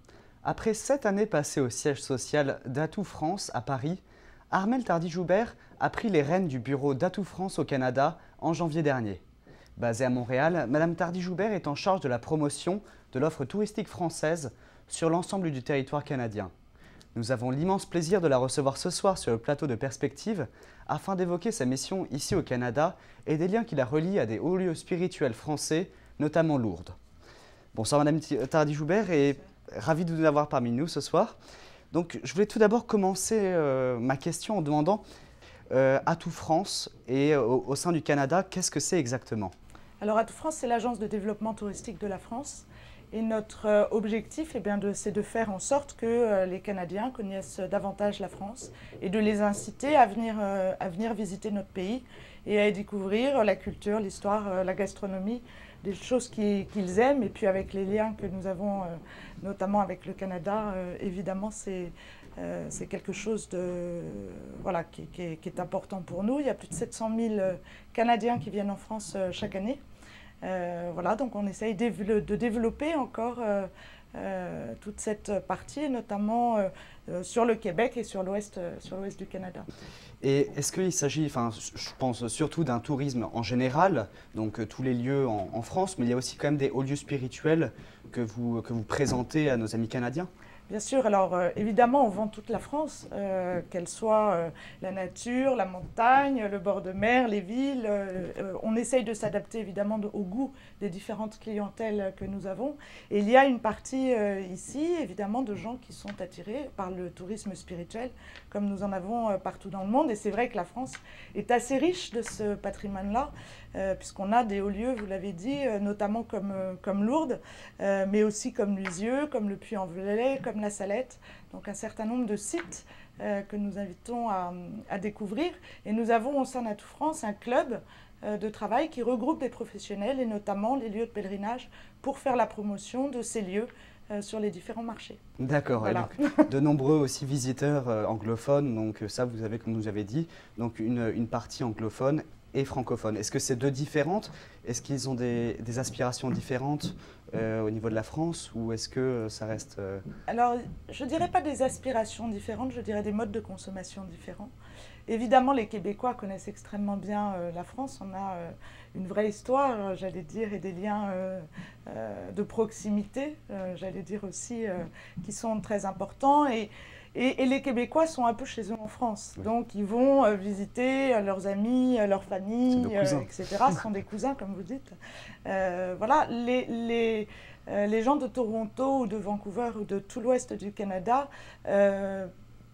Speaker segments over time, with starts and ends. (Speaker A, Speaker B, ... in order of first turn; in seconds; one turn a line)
Speaker A: 0.4-9.2
Speaker A: 9.8-16.5
Speaker A: 17.1-27.0
Speaker A: 27.7-31.4
Speaker A: 31.9-35.0
Speaker A: 35.7-39.5
Speaker B: 40.0-69.8
Speaker B: 70.4-79.7
Speaker A: 80.2-90.3
Speaker B: 90.7-135.2
Speaker A: 135.4-150.0
Speaker B: 135.8-136.5
Speaker B: 150.3-154.5
Speaker B: 155.1-174.9
Speaker A: 172.7-173.3
Speaker B: 175.5-182.3